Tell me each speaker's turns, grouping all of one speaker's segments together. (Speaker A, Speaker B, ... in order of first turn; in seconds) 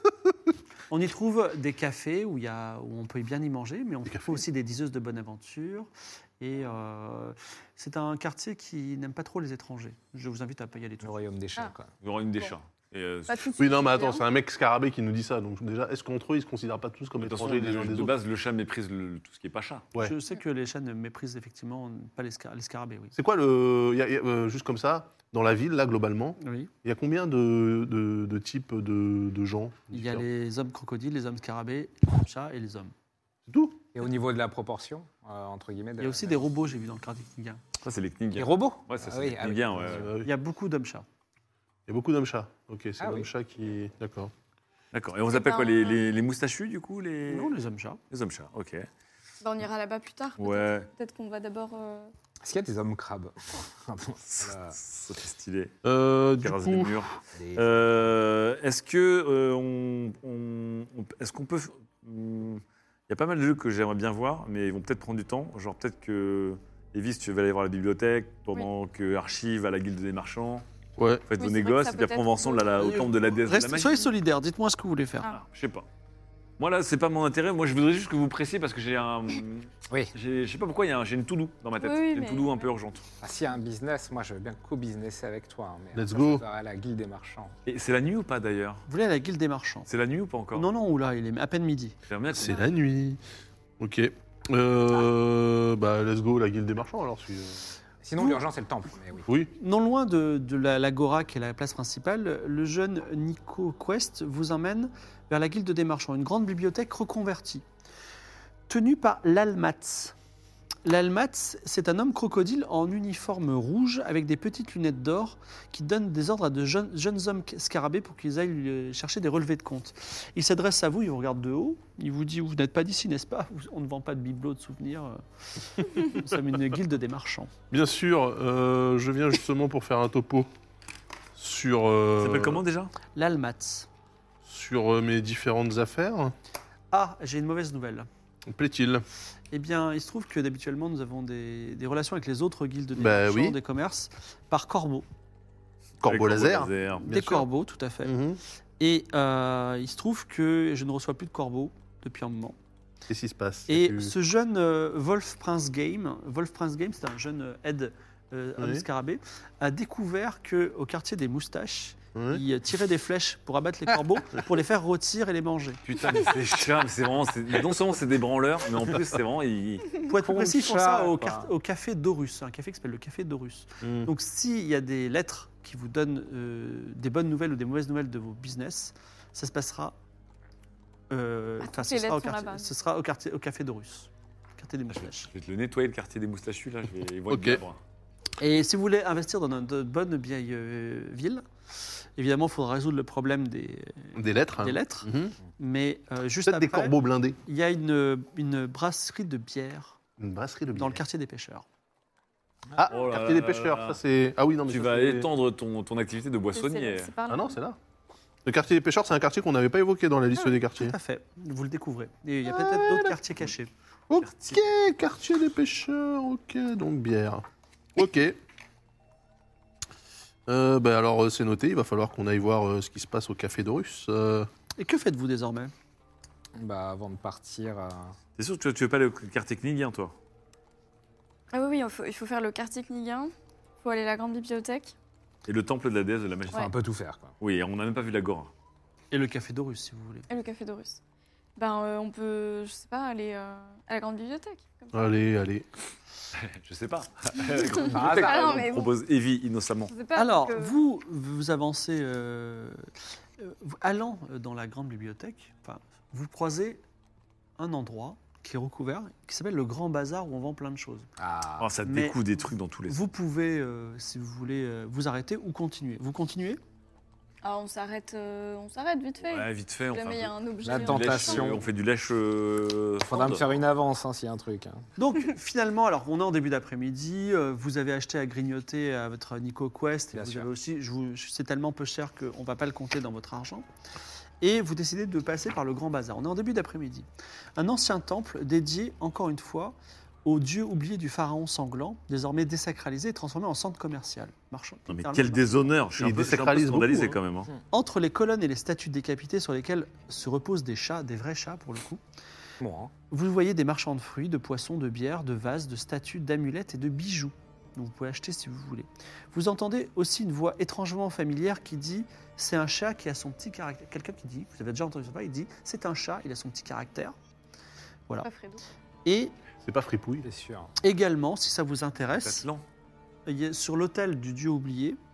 Speaker A: 0.9-5.9, 6.4-11.3, 20.0-23.1, 26.4-26.7, 29.9-32.9, 36.0-37.6, 40.2-41.1, 47.3-48.0, 72.8-75.3, 88.9-89.9, 90.5-92.0, 99.6-107.7, 108.7-110.2, 110.8-127.5, 133.2-133.9, 136.9-138.1, 139.5-145.1, 147.1-148.2, 148.8-152.6, 153.7-165.8, 170.0-179.9, 181.1-185.3, 188.4-191.4, 192.2-196.9, 197.5-200.0, 200.8-201.7, 210.4-213.7, 224.8-225.7, 239.1-240.3, 250.2-252.9, 253.4-256.8, 257.6-261.1, 261.9-262.2, 262.9-266.6, 275.0-283.7, 284.4-287.1, 287.6-295.7, 297.7-302.0, 303.1-317.1, 319.1-319.3, 320.8-322.5, 323.3-325.0
Speaker B: 4.1-4.4, 13.6-18.2, 23.1-30.2, 33.5-33.8, 39.8-40.3, 41.9-44.3, 55.9-57.0, 71.0-71.2, 86.0-86.4, 92.3-93.2, 93.8-97.8, 99.3-99.5, 127.7-130.5, 131.4-132.6, 134.5-136.3, 138.5-139.1, 143.0-143.6, 146.0-147.5, 148.0-148.4, 153.1-154.1, 158.6-158.8, 162.2-162.4, 173.8-174.1, 187.3-187.6, 194.2-195.4, 196.5-197.4, 200.2-201.0, 202.8-205.3, 207.3-207.8, 208.4-211.0, 212.5-213.2, 214.1-217.4, 218.0-218.4, 220.5-224.5, 244.9-245.7, 296.0-297.2, 319.6-320.3
Speaker C: 11.0-11.9, 33.9-36.4, 38.4-40.1, 43.0-43.3, 52.4-54.8, 57.4-58.2, 83.2-87.5, 98.0-99.3, 170.1-171.5, 226.6-228.2, 236.5-237.3, 247.8-248.7, 261.2-261.7, 270.6-271.7, 273.1-274.8, 280.1-280.5, 302.6-302.9, 320.2-320.7
Speaker D: 12.0-13.5, 17.2-19.9, 37.8-40.1, 44.9-47.5, 48.1-48.9, 50.4-50.9, 54.3-55.7, 56.4-70.7, 71.3-74.1, 75.3-75.8, 76.6-83.0, 87.7-88.8, 89.9-90.7, 92.1-92.7, 132.2-132.9, 146.0-147.1, 165.9-169.9, 184.9-187.8, 202.9-204.0, 204.7-207.1, 228.4-230.2, 235.5-236.7, 237.4-238.5, 246.3-249.9, 261.6-263.0, 269.2-273.5, 294.9-297.5, 322.2-322.6
Speaker E: 13.3-14.2, 45.3-46.1, 49.4-52.1, 71.4-73.1, 81.8-82.7, 181.6-182.7, 206.5-207.6, 231.5-234.9, 240.3-241.0, 241.6-244.9, 247.4-248.9, 249.9-250.8, 267.4-271.5, 318.2-318.6